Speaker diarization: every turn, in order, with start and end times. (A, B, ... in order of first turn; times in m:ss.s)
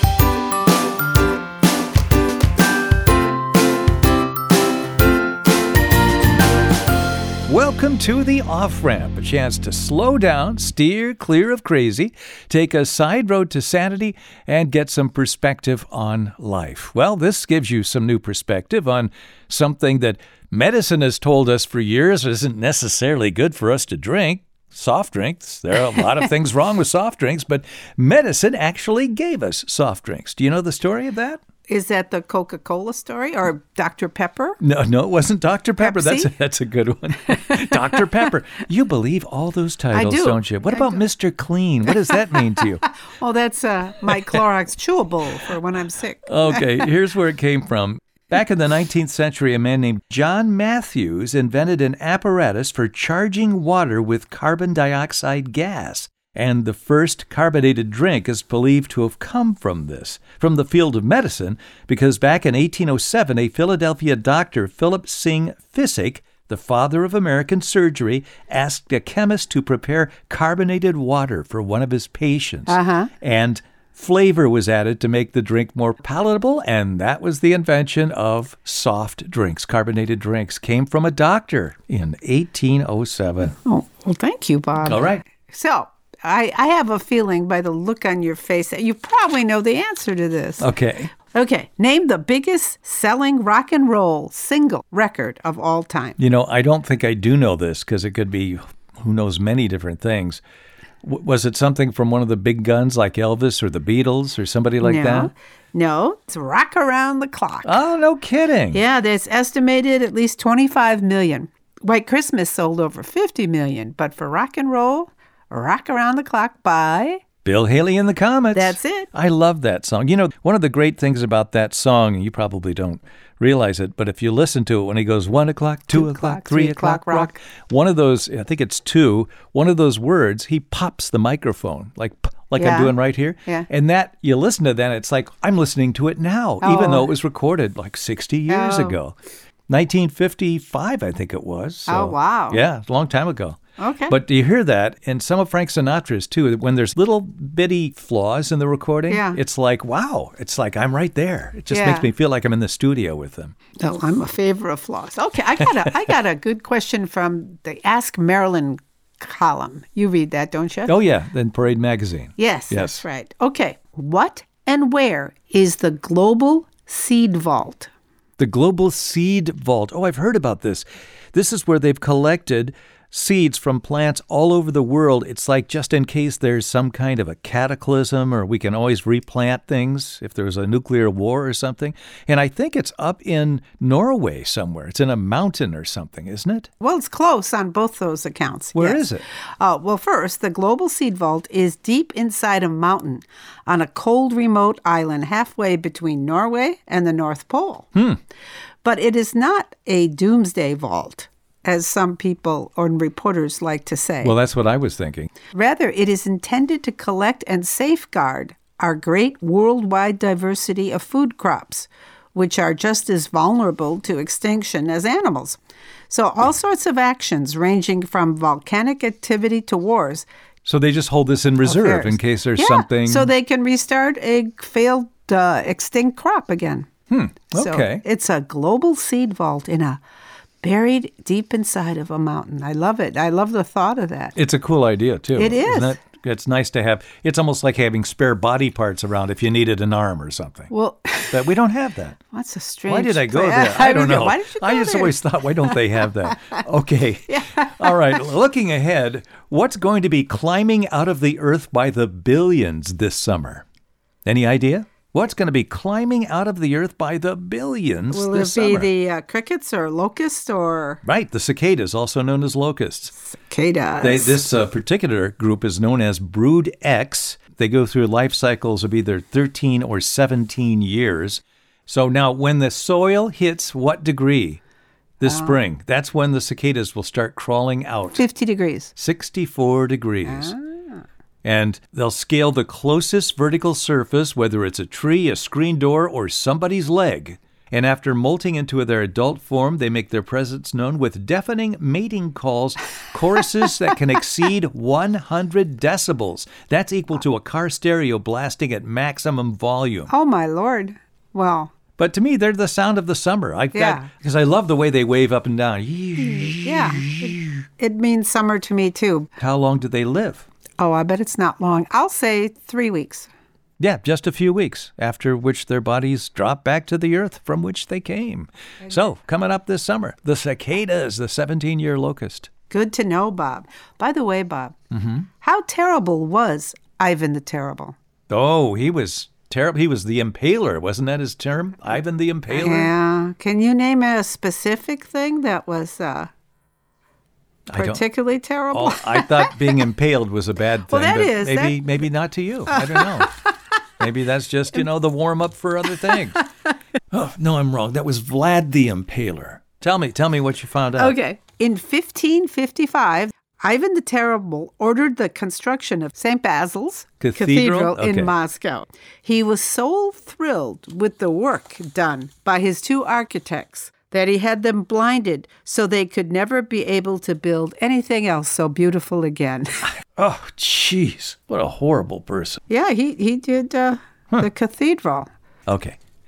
0:07.5-0:31.4 A
0:31.7-0:34.6 B
0:34.6-0:42.9 A
0:35.8-0:36.3 B
0:37.5-0:38.0 B
0:39.9-0:41.0 B
0:42.1-0:46.7 B
0:46.2-1:23.6 A
1:12.7-1:13.1 B
1:23.5-1:36.2 B
1:24.8-1:25.2 A
1:30.6-1:31.1 A
1:36.2-1:40.4 A
1:41.0-1:45.3 A
1:44.8-1:47.7 B
1:47.6-1:48.8 A
1:48.7-1:57.2 B
1:57.4-2:19.2 A
1:58.5-1:59.1 B
2:05.9-2:07.4 B
2:12.6-2:12.9 B
2:16.6-2:17.1 B
2:18.5-2:19.0 B
2:19.7-2:33.6 A
2:21.9-2:22.6 B
2:23.8-2:24.2 B
2:29.1-2:29.4 B
2:31.7-2:32.1 B
2:33.8-2:40.9 B
2:40.9-2:43.0 A
2:42.4-2:47.9 B
2:48.4-3:06.7 A
3:06.8-3:09.1 B
3:08.7-3:09.2 A
3:09.6-3:17.9 B
3:18.8-3:24.3 B
3:24.2-3:25.3 A
3:25.5-3:35.6 B
3:36.1-3:40.3 B
3:40.6-3:43.3 A
3:41.6-3:46.9 B
3:47.1-3:48.0 A
3:47.5-3:50.0 B
3:50.6-3:54.3 B
3:54.4-4:00.7 A
3:55.4-3:56.0 B
4:00.7-4:01.5 B
4:01.3-4:02.2 A
4:02.3-4:06.6 B
4:02.9-4:13.6 A
4:07.3-4:08.2 B
4:14.2-4:18.9 A
4:18.1-4:21.0 B
4:21.0-4:23.1 A
4:23.3-4:24.4 B
4:24.0-4:34.6 A
4:35.2-4:38.2 A
4:35.2-4:35.6 B
4:38.2-4:38.9 B
4:38.9-4:40.6 A
4:40.2-4:41.0 B
4:41.4-5:00.1 A
5:00.1-5:01.7 B
5:02.0-5:07.6 A
5:03.7-5:04.1 B
5:06.2-5:09.3 B
5:09.4-5:10.5 A
5:10.8-5:13.3 B
5:13.8-5:22.5 A
5:22.7-5:24.8 B
5:24.9-5:25.3 A
5:25.4-5:28.0 B
5:28.3-5:32.9 A
5:32.5-5:36.3 B
5:37.7-5:38.0 A
5:37.8-5:39.7 B
5:38.7-5:43.4 A
5:40.9-5:41.8 B
5:42.7-5:43.5 B
5:44.0-5:46.4 A
5:47.1-5:51.2 A
5:51.0-6:09.9 B
5:57.2-5:58.3 A
6:10.1-6:12.6 A
6:12.7-6:15.3 B
6:15.7-6:16.0 A